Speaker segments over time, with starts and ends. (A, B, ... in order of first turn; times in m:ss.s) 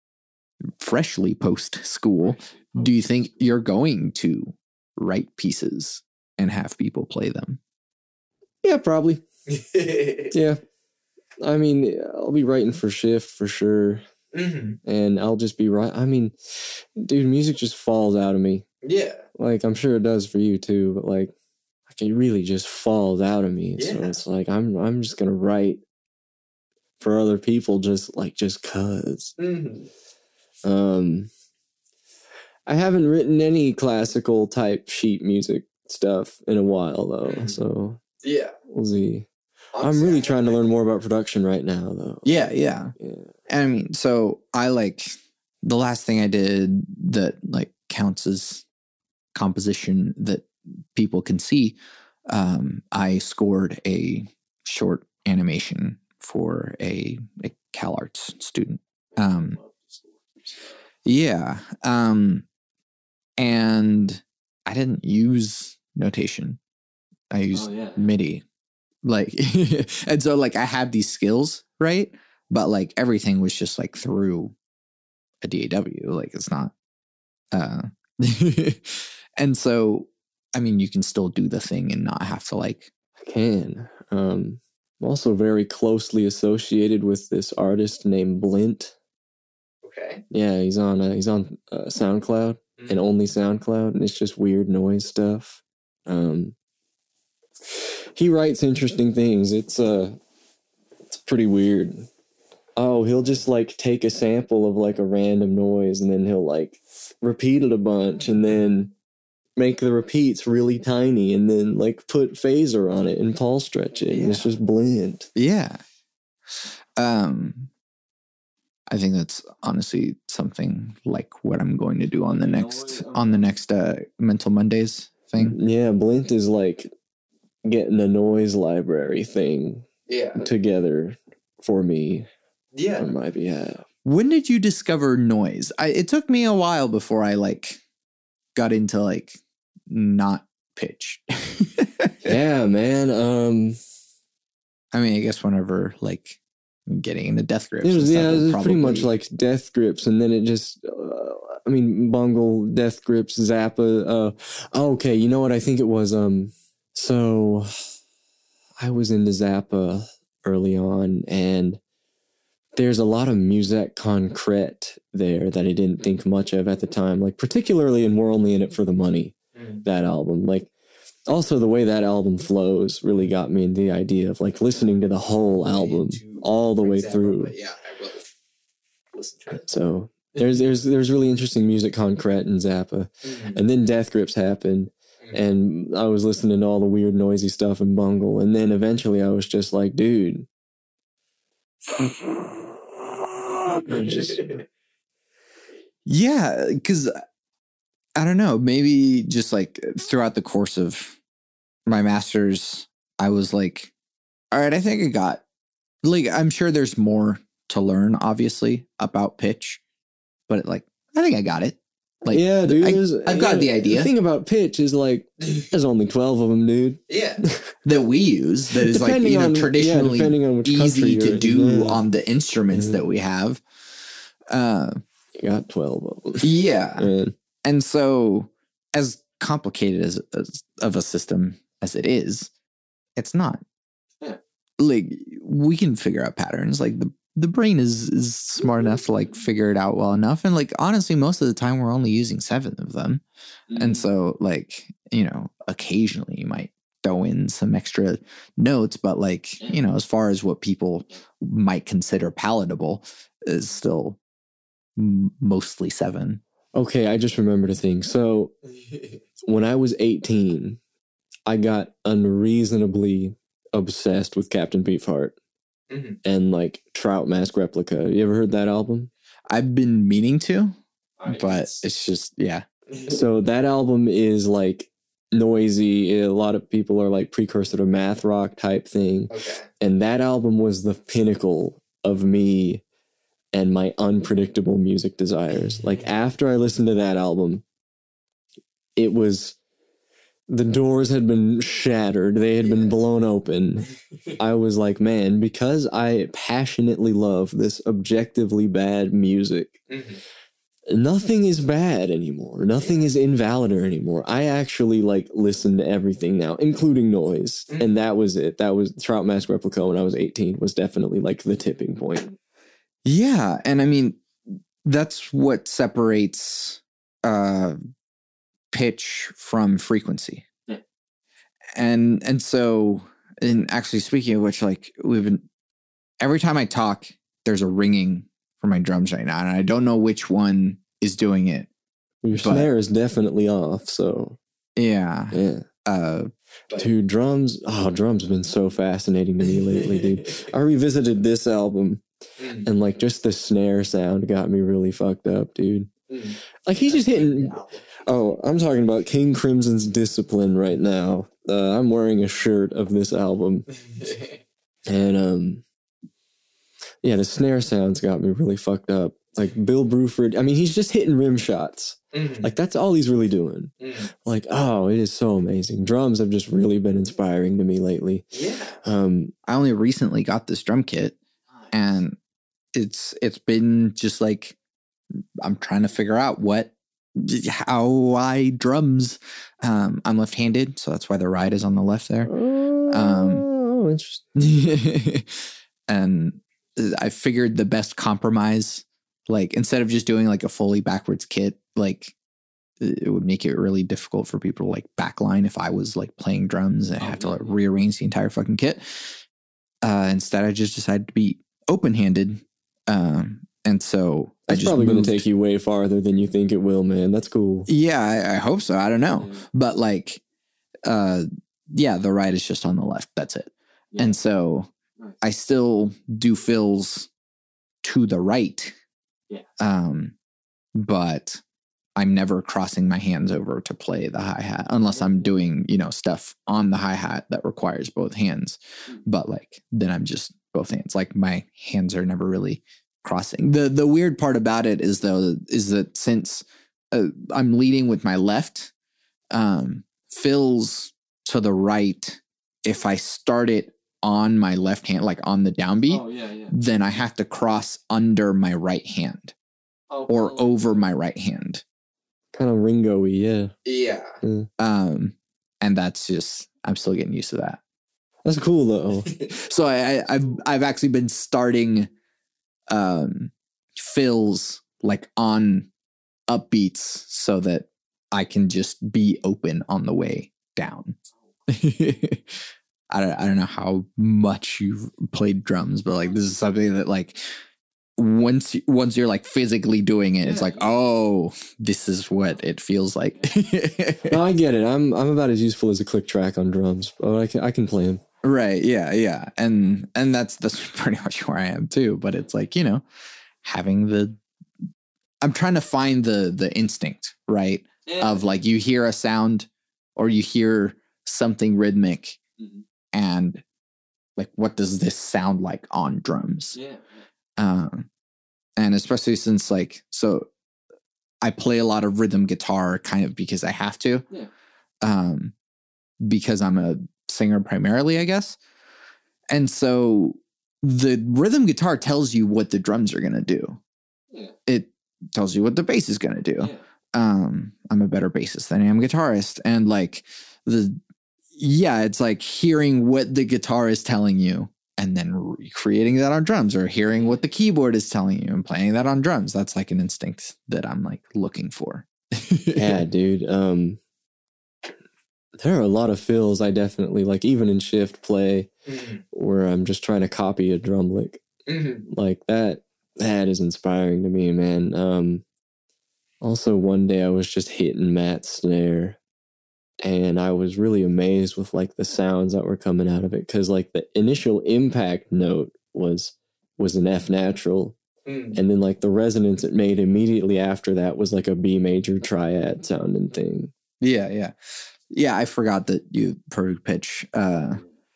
0:00.8-0:07.6 A
0:02.3-0:03.0 B
0:08.6-0:09.2 C
0:09.5-0:10.3 A
0:10.3-0:10.6 C
0:11.4-0:14.0 C
0:14.3-0:14.8 A
0:14.8-0:18.6 C
0:18.8-0:19.2 A
0:19.4-0:21.3 C
0:21.9-0:25.8 C
0:23.8-0:24.2 A
0:27.0-0:29.3 C
0:29.4-0:29.9 A
0:30.6-0:31.3 C
0:32.6-0:38.0 C
0:37.2-0:37.6 A
0:38.2-0:38.5 A
0:38.7-0:39.3 C
0:39.7-0:40.6 A
0:39.8-0:42.4 C
0:42.2-0:42.9 A
0:43.0-0:43.3 C
0:43.5-0:48.6 A
0:49.3-0:51.8 A
0:52.3-0:59.6 A
0:59.2-1:00.7 B
1:01.0-1:02.4 A
1:03.4-1:06.6 A
1:07.3-1:08.4 A
1:07.5-1:08.1 B
1:09.0-1:14.5 A
1:15.4-1:16.7 A
1:17.5-1:22.9 A
1:23.2-1:28.9 C
1:29.8-1:30.2 A
1:30.3-1:36.5 C
1:32.8-1:33.0 A
1:37.7-1:40.2 C
1:41.1-1:42.1 C
1:42.8-1:48.9 C
1:49.6-1:55.3 C
1:54.1-1:54.5 A
1:55.3-1:55.8 A
1:57.0-1:57.7 A
1:58.9-2:05.6 A
2:02.2-2:03.5 B
2:05.4-2:06.9 C
2:07.6-2:12.3 C
2:10.1-2:10.4 A
2:12.7-2:13.1 A
2:13.0-2:13.8 C
2:14.0-2:17.8 A
2:18.6-2:19.4 A
2:19.9-2:22.3 A
2:22.2-2:23.8 C
2:24.9-2:29.1 A
2:27.8-2:37.7 C
2:38.8-2:41.8 C
2:42.8-2:50.7 C
2:49.6-2:49.8 A
2:51.3-2:57.5 C
2:55.6-2:58.2 A
2:59.1-2:59.6 A
2:59.5-3:10.5 C
3:03.2-3:03.6 A
3:12.0-3:12.6 C
3:13.7-3:14.5 C
3:14.0-3:14.5 A
3:16.0-3:17.1 A
3:18.2-3:21.2 A
3:21.9-3:23.9 A
3:24.5-3:25.4 A
3:26.0-3:29.8 A
3:30.5-3:34.1 A
3:32.3-3:37.6 C
3:37.1-3:43.6 A
3:38.8-3:42.0 C
3:42.7-3:43.0 C
3:44.5-3:45.0 A
3:45.3-3:47.3 C
3:46.4-3:47.1 A
3:47.6-3:52.5 A
3:53.2-3:53.6 A
3:54.8-4:03.2 A
4:03.7-4:04.0 B
4:03.7-4:14.2 A
4:15.0-4:16.4 A
4:16.7-4:18.6 C
4:19.4-4:20.8 C
4:21.5-4:25.4 C
4:25.9-4:26.2 A
4:26.2-4:29.1 C
4:29.5-4:30.7 A
4:31.2-4:31.8 B
4:31.3-4:33.2 A
4:33.1-4:42.8 C
4:39.3-4:39.7 A
4:43.5-4:47.6 C
4:49.0-4:49.6 C
4:50.5-4:59.8 C
4:52.6-4:52.9 A
4:59.9-5:00.2 A
5:00.9-5:12.4 C
5:13.0-5:14.2 A
5:14.8-5:17.8 A
5:18.7-5:20.4 A
5:21.8-5:25.4 A
5:26.2-5:31.7 A
5:32.2-5:34.4 C
5:32.4-5:32.7 A
5:34.8-5:36.9 A
5:35.3-5:35.6 C
5:36.8-5:42.0 C
5:42.4-5:42.6 A
5:42.6-5:45.9 C
5:46.1-5:47.8 A
5:46.6-5:53.6 C
5:53.8-5:54.4 A
5:54.9-5:55.6 C
5:57.0-6:03.7 C
6:02.1-6:02.5 A
6:03.8-6:04.1 A
6:04.2-6:08.3 C
6:08.3-6:08.8 A
6:08.8-6:09.3 C
6:09.4-6:11.2 A
6:11.7-6:12.2 A
6:12.7-6:14.6 A
6:15.4-6:22.3 A
6:22.2-6:24.2 C
6:22.9-6:23.4 A
6:24.3-6:32.1 A
6:32.8-6:39.2 A
6:37.0-6:37.6 B
6:39.8-6:45.2 A
6:44.5-6:47.7 C
6:47.7-6:50.2 A
6:49.1-6:49.4 B
6:50.8-6:54.7 A
6:55.2-6:57.1 A
6:57.8-6:58.7 A
6:59.6-7:00.1 A
7:00.8-7:01.4 A
7:02.0-7:18.7 A
7:04.9-7:05.3 B
7:19.3-7:29.3 A
7:25.9-7:26.5 B
7:29.9-7:30.5 B
7:30.1-7:31.6 A
7:32.3-7:33.5 C
7:33.6-7:37.6 A
7:34.2-7:34.5 C
7:38.2-7:39.1 C
7:39.1-7:41.9 A
7:42.7-7:45.7 A
7:46.3-7:51.0 A
7:51.5-7:52.2 A
7:52.9-7:57.2 A
7:58.0-8:04.2 A
8:00.2-8:00.6 B
8:04.1-8:08.0 C
8:08.2-8:12.8 A
8:13.4-8:14.2 A
8:15.2-8:22.2 A
8:17.9-8:18.2 B
8:22.9-8:23.4 A
8:24.2-8:26.5 A
8:26.5-8:26.8 B
8:27.4-8:27.9 A
8:28.6-8:30.3 A
8:31.2-8:34.0 A
8:34.8-8:35.3 A
8:36.0-8:38.4 A
8:39.3-8:43.6 A
8:44.5-8:50.8 A
8:51.4-9:02.7 A
8:56.9-8:57.2 B
9:02.6-9:03.8 C
9:05.4-9:08.5 C
9:08.7-9:09.0 A
9:09.1-9:11.2 C
9:11.5-9:11.8 A
9:11.9-9:15.2 C
9:16.2-9:19.0 C
9:19.8-9:27.8 C
9:28.0-9:28.4 A
9:28.3-9:33.5 C
9:33.8-9:34.3 A
9:34.9-9:37.6 A